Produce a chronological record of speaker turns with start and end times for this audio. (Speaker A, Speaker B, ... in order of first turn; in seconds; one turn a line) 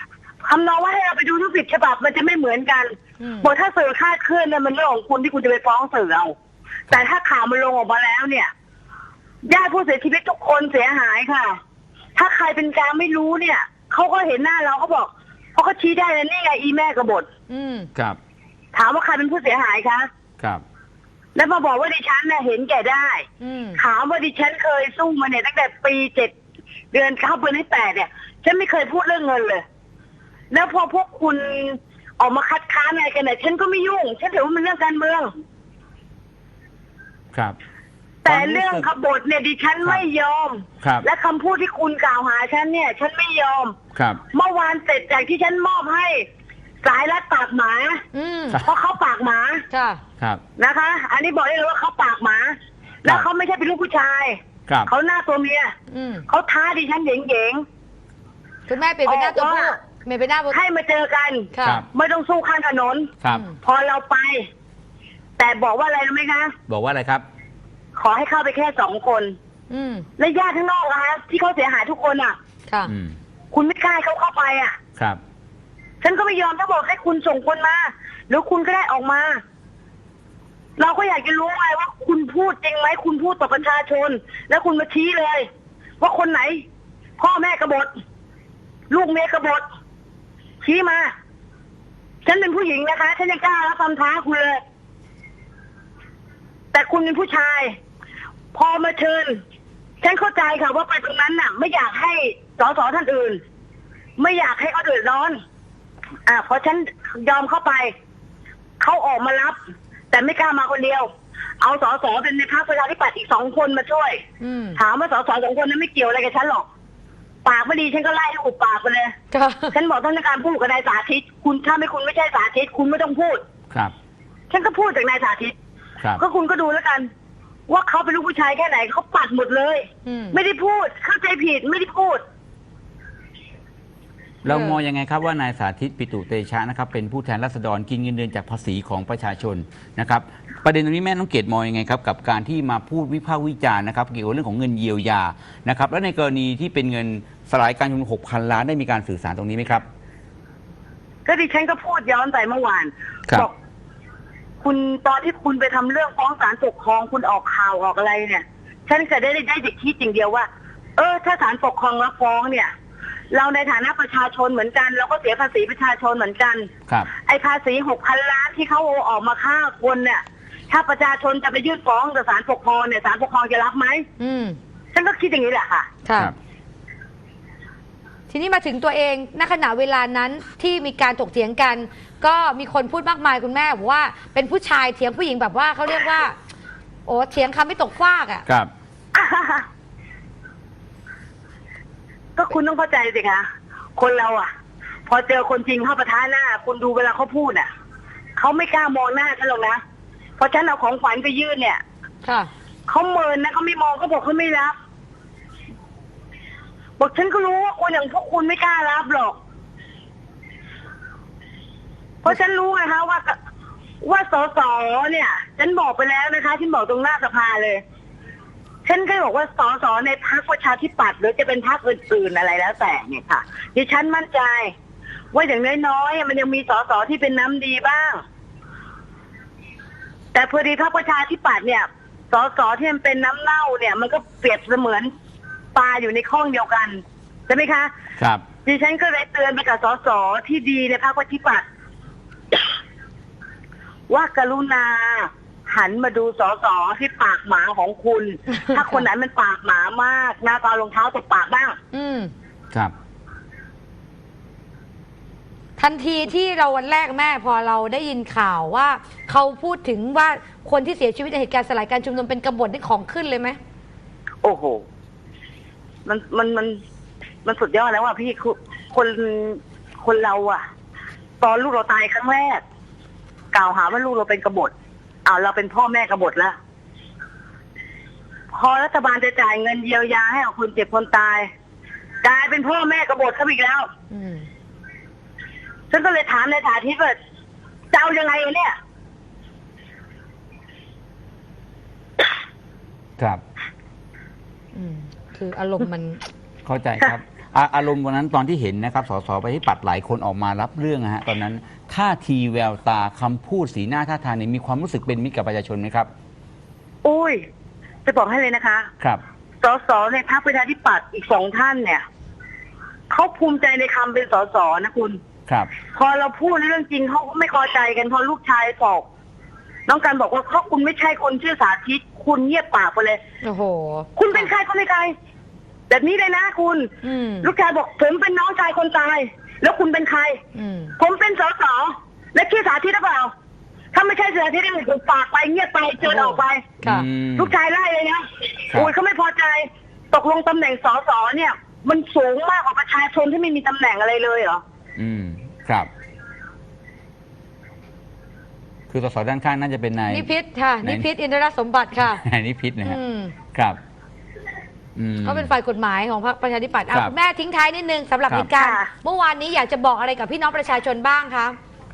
Speaker A: 0.4-6.3
Speaker B: 3.2-3.5
Speaker A: 6.9-8.5
Speaker A: 9.5-11.5
Speaker A: 12.2-17.2
Speaker B: 13.7-15.0
Speaker B: 16.9-17.9
Speaker A: 18.8-20.1
Speaker A: 21.4-26.3
Speaker B: 23.4-23.9
Speaker A: 26.9-29.6
Speaker B: 27.7-28.1
Speaker A: 30.5-35.3
Speaker B: 38.3-38.8
Speaker C: 38.3-38.9
Speaker A: 38.3-43.8
Speaker B: 39.6-40.3
Speaker C: 40.8-41.1
Speaker C: 43.9-44.2
Speaker A: 44.3-46.2
Speaker B: 45.0-45.4
Speaker A: 46.8-48.0
Speaker B: 48.1-50.0
Speaker A: 48.6-49.6
Speaker A: 50.6-52.5
Speaker A: 53.1-54.3
Speaker B: 53.1-53.5
Speaker C: 54.7-54.9
Speaker A: 54.9-55.7
Speaker B: 55.9-56.4
Speaker A: 56.3-57.6
Speaker B: 58.7-60.6
Speaker A: 59.0-59.8
Speaker A: 60.5-63.1
Speaker B: 61.4-61.9
Speaker B: 63.3-63.6
Speaker A: 63.6-64.5
Speaker A: 65.4-66.5
Speaker C: 66.7-67.2
Speaker A: 68.0-69.4
Speaker B: 69.7-70.2
Speaker A: 70.2-72.3
Speaker C: 72.9-73.2
Speaker A: 73.5-74.8
Speaker A: 76.0-79.4
Speaker A: 80.8-85.4
Speaker B: 83.0-85.1
Speaker A: 86.0-86.6
Speaker A: 87.2-87.8
Speaker B: 87.6-87.9
Speaker A: 88.9-89.4
Speaker B: 89.1-89.6
Speaker A: 90.6-91.1
Speaker B: 92.3-94.6
Speaker A: 92.3-94.5
Speaker A: 96.7-97.6
Speaker B: 96.7-97.6
Speaker A: 98.5-99.3
Speaker B: 98.9-99.2
Speaker A: 100.0-103.3
Speaker B: 100.0-101.8
Speaker B: 102.6-103.4
Speaker A: 104.2-105.3
Speaker B: 104.2-105.3
Speaker A: 106.3-107.9
Speaker A: 108.8-109.5
Speaker A: 110.1-111.1
Speaker A: 111.6-114.2
Speaker B: 111.9-112.2
Speaker B: 112.8-114.8
Speaker A: 114.8-116.6
Speaker A: 117.5-119.1
Speaker B: 117.5-118.1
Speaker B: 119.3-119.8
Speaker A: 119.7-123.4
Speaker A: 124.5-125.5
Speaker A: 126.2-127.1
Speaker A: 127.7-132.2
Speaker B: 130.0-130.4
Speaker C: 134.4-149.8
Speaker B: 134.5-134.8
Speaker A: 151.3-153.5
Speaker B: 151.3-152.9
Speaker A: 154.6-160.4
Speaker B: 154.7-160.4
Speaker A: 161.0-162.7
Speaker B: 161.0-162.4
Speaker A: 163.3-166.6
Speaker B: 163.4-166.3
Speaker B: 167.3-170.2
Speaker A: 167.3-170.2
Speaker A: 170.7-174.0
Speaker B: 170.7-176.3
Speaker A: 175.1-175.9
Speaker B: 178.3-186.4
Speaker B: 187.1-188.4
Speaker A: 189.2-189.6
Speaker B: 189.2-189.6
Speaker B: 192.4-193.1
Speaker A: 192.5-193.4
Speaker A: 194.0-194.4
Speaker B: 194.0-194.5
Speaker A: 195.1-197.7
Speaker B: 195.1-196.7
Speaker A: 198.4-199.8
Speaker A: 200.4-201.8
Speaker B: 202.2-203.3
Speaker A: 202.9-204.8
Speaker A: 207.0-209.3
Speaker B: 207.3-207.7
Speaker B: 212.2-213.2
Speaker A: 212.3-213.2
Speaker B: 214.1-217.8
Speaker A: 214.1-217.8
Speaker A: 218.9-224.6
Speaker B: 218.9-222.6
Speaker B: 223.8-224.6
Speaker A: 225.3-228.2
Speaker B: 225.3-228.1
Speaker A: 230.3-235.0
Speaker B: 230.4-231.6
Speaker B: 232.3-235.1
Speaker A: 235.8-236.9
Speaker B: 235.8-236.9
Speaker B: 237.5-237.9
Speaker C: 238.2-238.4
Speaker A: 238.7-241.6
Speaker B: 238.7-241.6
Speaker A: 244.1-251.7
Speaker B: 246.4-246.8
Speaker B: 248.1-251.4
Speaker B: 251.9-252.3
Speaker B: 255.8-263.6
Speaker B: 264.4-264.8
Speaker A: 266.1-266.7
Speaker B: 266.1-266.7
Speaker B: 267.4-268.1
Speaker A: 267.4-270.6
Speaker B: 271.4-272.4
Speaker A: 271.4-272.6
Speaker A: 273.5-274.7
Speaker A: 275.3-276.6
Speaker A: 278.5-281.5
Speaker A: 282.2-283.9
Speaker B: 284.1-284.5
Speaker A: 285.9-287.0
Speaker B: 286.6-287.2
Speaker A: 287.9-288.7
Speaker B: 288.0-288.7
Speaker B: 294.7-296.2
Speaker C: 296.6-306.1
Speaker B: 307.1-307.4
Speaker A: 307.1-307.4
Speaker A: 308.1-308.8
Speaker B: 308.1-308.9
Speaker B: 309.6-312.0
Speaker A: 309.6-312.0
Speaker A: 313.1-315.2
Speaker B: 313.2-314.5
Speaker A: 316.0-319.0
Speaker A: 319.9-323.2
Speaker B: 323.4-324.5
Speaker A: 324.2-325.1
Speaker A: 325.9-326.9
Speaker B: 327.0-327.5
Speaker A: 327.4-330.3
Speaker B: 330.2-331.1
Speaker A: 331.0-333.3
Speaker A: 333.9-336.8
Speaker B: 336.0-337.1
Speaker C: 336.8-337.6
Speaker A: 337.4-339.6
Speaker A: 340.1-343.7
Speaker B: 340.3-344.6
Speaker C: 345.0-345.9
Speaker C: 348.9-350.3
Speaker B: 350.1-352.2
Speaker C: 352.0-353.0
Speaker B: 352.9-353.4
Speaker C: 353.5-353.8
Speaker C: 355.0-355.5
Speaker B: 355.2-361.5
Speaker A: 358.6-358.9